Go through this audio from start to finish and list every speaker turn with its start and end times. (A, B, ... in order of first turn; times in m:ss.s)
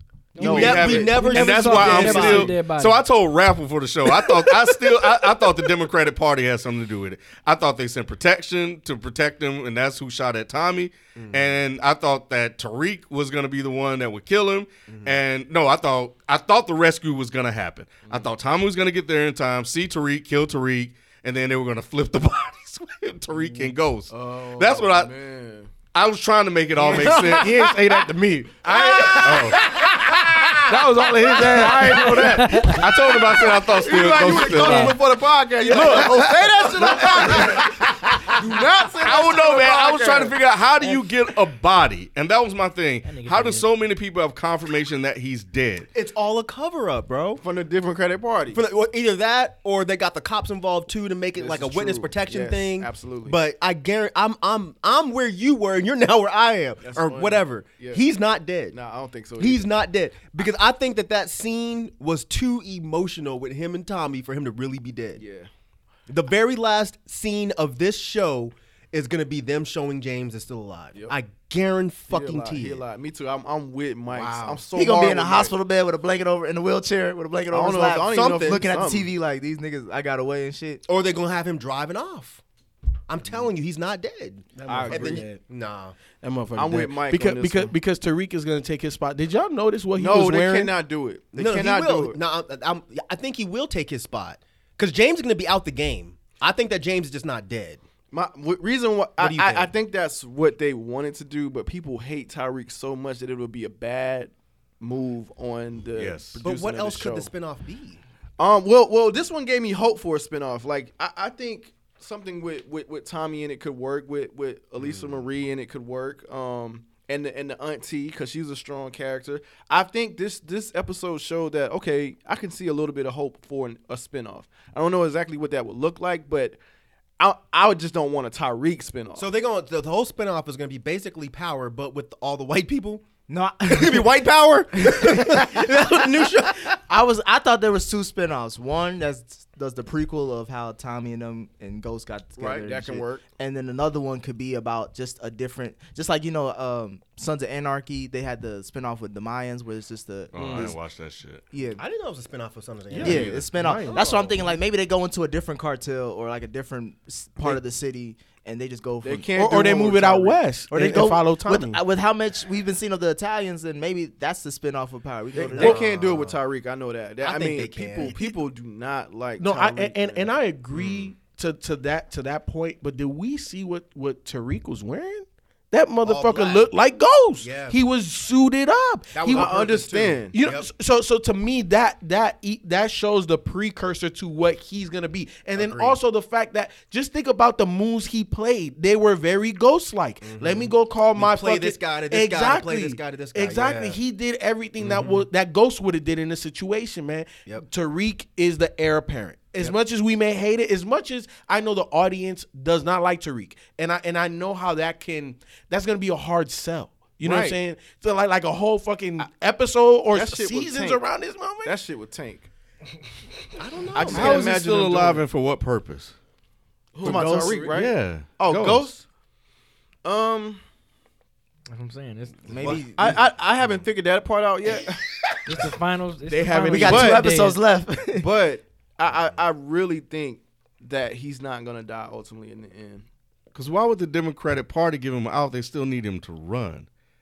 0:00.4-0:03.0 A
0:00.4-0:02.5 B
0:00.4-0:01.2 C
0:00.4-0:25.1 D
0:11.2-0:11.6 B
0:14.9-0:15.1 B
0:18.0-0:18.3 C
0:24.1-0:25.7 C
0:25.9-0:27.6 D
0:26.8-0:32.8 E
0:26.8-0:27.8 C
0:28.7-0:29.8 C
0:29.2-0:29.6 D
0:31.1-0:40.3 C
0:32.2-0:32.8 A
0:32.6-0:35.0 D
0:34.6-0:35.0 A
0:35.7-0:37.8 D
0:35.7-0:36.1 B
0:36.8-0:37.6 B
0:39.0-0:45.9 D
0:43.0-0:43.7 A
0:45.9-0:47.4 B
0:47.4-0:48.6 C
0:48.5-0:58.8 B
0:51.4-0:53.4 C
0:56.8-0:58.0 C
0:58.7-0:59.7 C
0:59.4-1:05.2 B
1:05.2-1:05.5 C
1:06.1-1:12.8 B
1:12.1-1:15.5 C
1:14.1-1:14.6 E
1:14.7-1:20.8 F
1:17.5-1:19.1 C
1:18.0-1:18.6 B
1:20.8-1:22.4 B
1:23.1-1:26.0 B
1:24.6-1:25.4 E
1:24.8-1:25.2 C
1:26.2-1:30.7 E
1:26.5-1:27.7 C
1:30.0-1:32.2 C
1:31.3-1:37.8 B
1:38.1-1:47.3 C
1:39.2-1:39.7 B
1:45.9-1:46.4 D
1:46.4-1:48.0 B
1:48.4-2:06.6 C
1:54.8-1:55.2 B
2:07.2-2:09.3 C
2:09.2-2:13.0 B
2:13.3-2:14.1 F
2:13.7-2:16.8 B
2:14.8-2:16.2 F
2:16.7-2:30.7 F
2:22.4-2:23.2 C
2:30.3-2:31.4 D
2:30.4-2:30.7 E
2:31.5-2:31.8 F
2:31.8-2:34.3 B
2:32.9-2:34.3 E
2:33.0-2:39.3 F
2:33.0-2:33.4 D
2:39.0-2:40.4 C
2:39.4-2:41.8 E
2:40.7-2:45.8 F
2:45.3-2:50.3 C
2:45.4-2:46.3 B
2:47.2-2:48.3 B
2:49.4-2:59.6 E
2:50.8-2:51.1 B
2:56.0-2:56.7 B
2:57.4-2:57.8 B
2:59.1-3:00.7 B
2:59.3-3:00.3 C
3:00.3-3:31.7 E
3:05.5-3:06.0 B
3:10.2-3:14.0 B
3:14.8-3:15.2 B
3:27.2-3:27.6 B
3:30.1-3:31.0 C
3:31.6-3:32.5 C
3:33.6-3:34.5 B
3:33.9-3:35.2 C
3:34.1-3:36.1 D
3:37.0-3:37.8 E
3:37.0-3:39.0 C
3:37.7-3:38.9 D
3:40.0-3:40.6 C
3:41.7-3:42.7 A
3:42.5-3:43.1 F
3:42.5-3:43.2 B
3:43.0-3:45.0 C
3:45.5-3:47.6 A
3:46.3-3:47.0 E
3:46.7-3:48.3 F
3:46.8-3:47.3 C
3:48.2-3:53.0 C
3:53.5-3:56.9 D